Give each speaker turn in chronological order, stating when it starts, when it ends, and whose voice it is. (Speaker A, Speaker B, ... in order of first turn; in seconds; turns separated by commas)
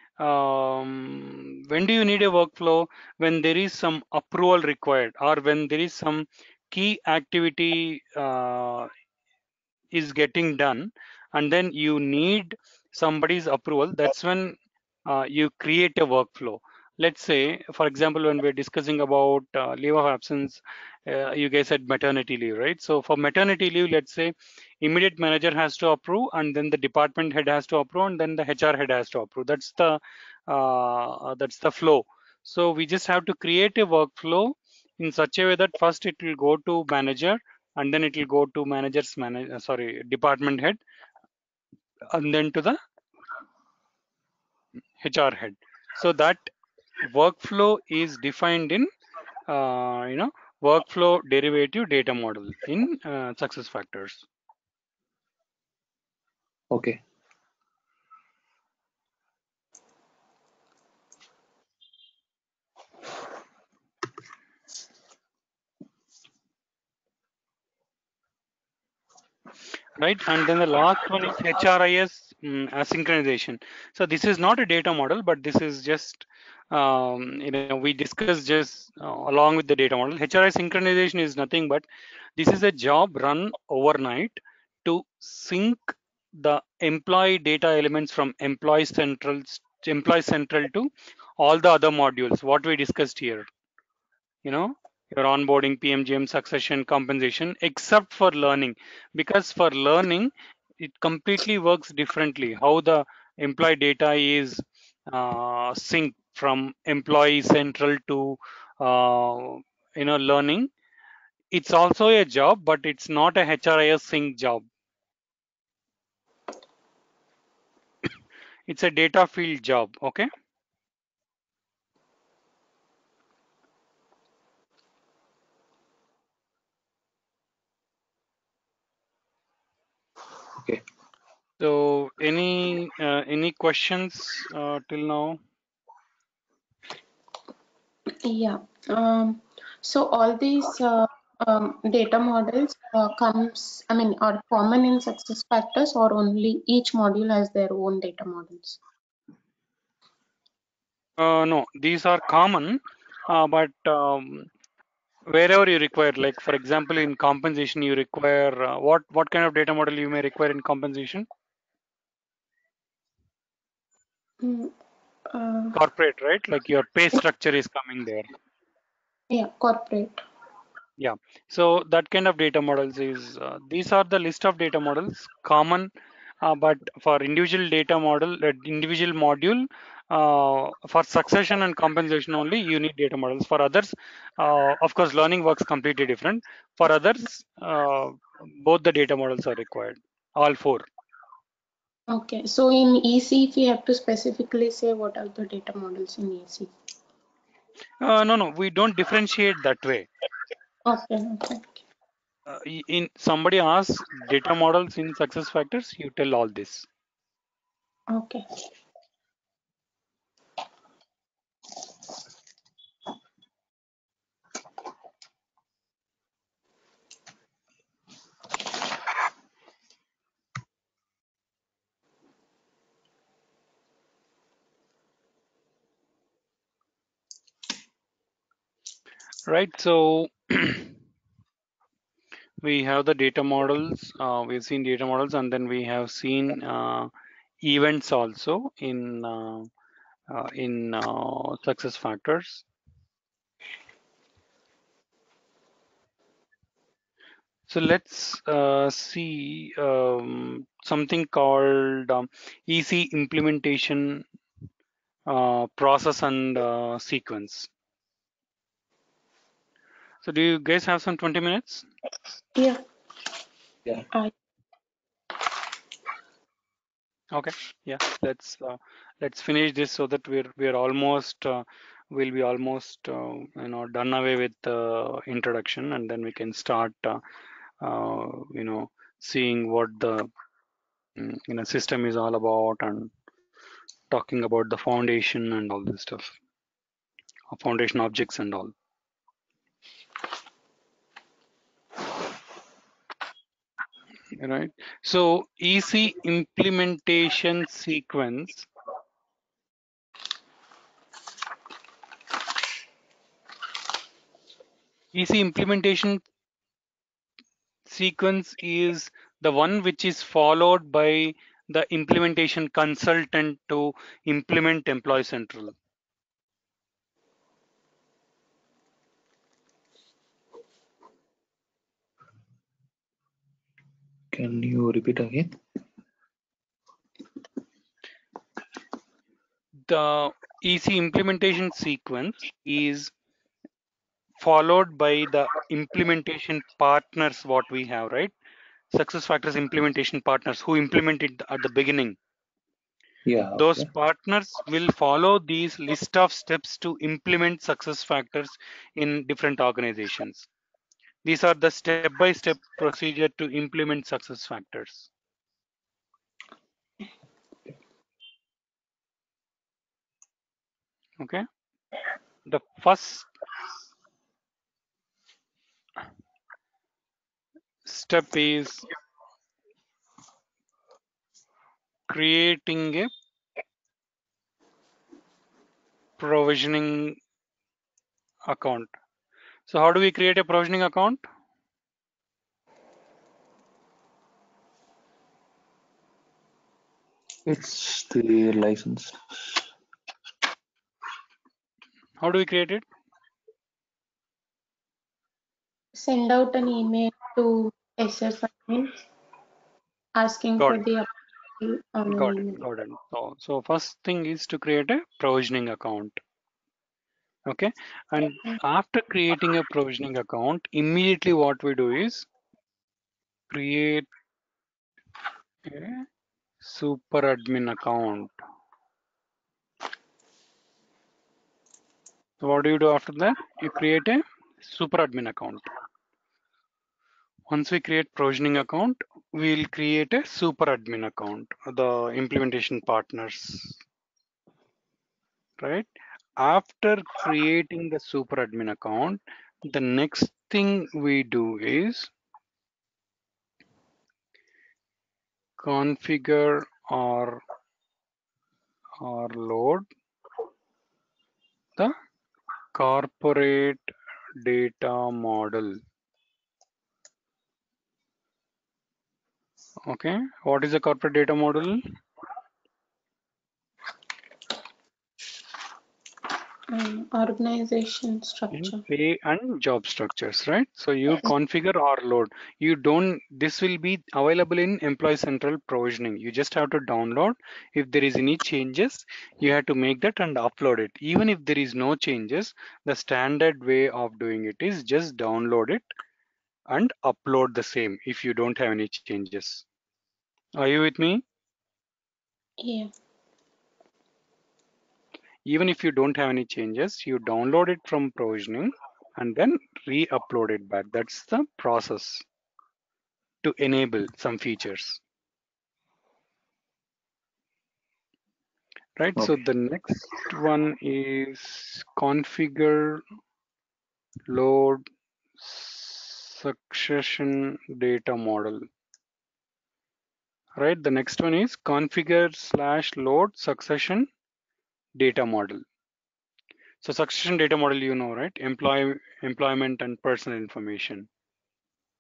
Speaker A: 0.2-8.9, Speaker A: 9.9-40.8, Speaker A: 42.1-42.8, Speaker A: 45.0-46.5, Speaker A: 47.0-48.9, Speaker A: 49.5-54.3, Speaker B: 56.7-57.0, Speaker A: 70.0-81.9, Speaker A: 82.4-93.5, Speaker A: 94.5-110.7, Speaker A: 111.5-114.7, Speaker A: 118.7-120.3, Speaker B: 130.6-130.8, Speaker A: 131.6-135.4, Speaker C: 138.2-148.8, Speaker A: 151.2-154.5, Speaker A: 155.3-161.3, Speaker C: 164.4-164.7, Speaker C: 165.3-165.8, Speaker A: 165.7-168.3, Speaker C: 169.3-170.2, Speaker A: 171.0-175.9, Speaker A: 176.4-190.9, Speaker C: 192.1-196.7, Speaker A: 198.0-200.1, Speaker C: 200.9-201.8, Speaker A: 202.5-206.9, Speaker C: 208.1-208.4, Speaker A: 229.5-231.0, Speaker A: 232.6-237.1, Speaker A: 237.6-239.7, Speaker A: 240.3-242.7, Speaker A: 247.7-254.2, Speaker A: 255.3-257.7, Speaker A: 260.2-261.9, Speaker C: 262.6-262.8, Speaker A: 267.3-277.2, Speaker A: 277.8-280.3, Speaker A: 281.2-283.1, Speaker A: 284.1-286.4, Speaker A: 287.5-288.7, Speaker A: 294.4-298.7, Speaker A: 305.1-306.3, Speaker A: 307.9-315.8, Speaker B: 324.3-325.6, Speaker A: 329.9-333.1, Speaker A: 334.4-338.3, Speaker A: 338.9-342.2, Speaker B: 343.2-343.9, Speaker A: 343.6-350.5, Speaker A: 351.2-355.1, Speaker A: 361.2-361.4, Speaker A: 362.5-363.3, Speaker A: 367.9-368.9, Speaker A: 372.1-373.1, Speaker A: 376.2-377.2, Speaker A: 378.5-378.9, Speaker A: 379.7-381.2, Speaker B: 387.4-389.6, Speaker A: 392.2-392.9, Speaker C: 396.0-398.9, Speaker C: 400.2-402.6, Speaker A: 400.6-400.8, Speaker A: 402.1-406.2, Speaker A: 407.5-412.3, Speaker A: 413.5-414.1, Speaker A: 415.6-416.1, Speaker A: 416.6-418.3, Speaker A: 422.4-425.7, Speaker A: 427.5-433.8, Speaker A: 435.6-442.1, Speaker A: 445.6-447.4, Speaker A: 449.0-449.9, Speaker A: 452.8-453.9, Speaker A: 454.4-455.8, Speaker A: 459.9-461.8, Speaker C: 466.7-468.8, Speaker A: 468.5-485.9, Speaker A: 486.7-489.6, Speaker A: 490.6-491.2, Speaker C: 492.6-492.9, Speaker A: 495.5-502.3, Speaker A: 503.4-505.0, Speaker A: 509.0-513.0, Speaker A: 514.3-514.8, Speaker A: 515.4-518.6, Speaker A: 520.6-524.1, Speaker A: 525.0-525.6, Speaker A: 526.8-531.1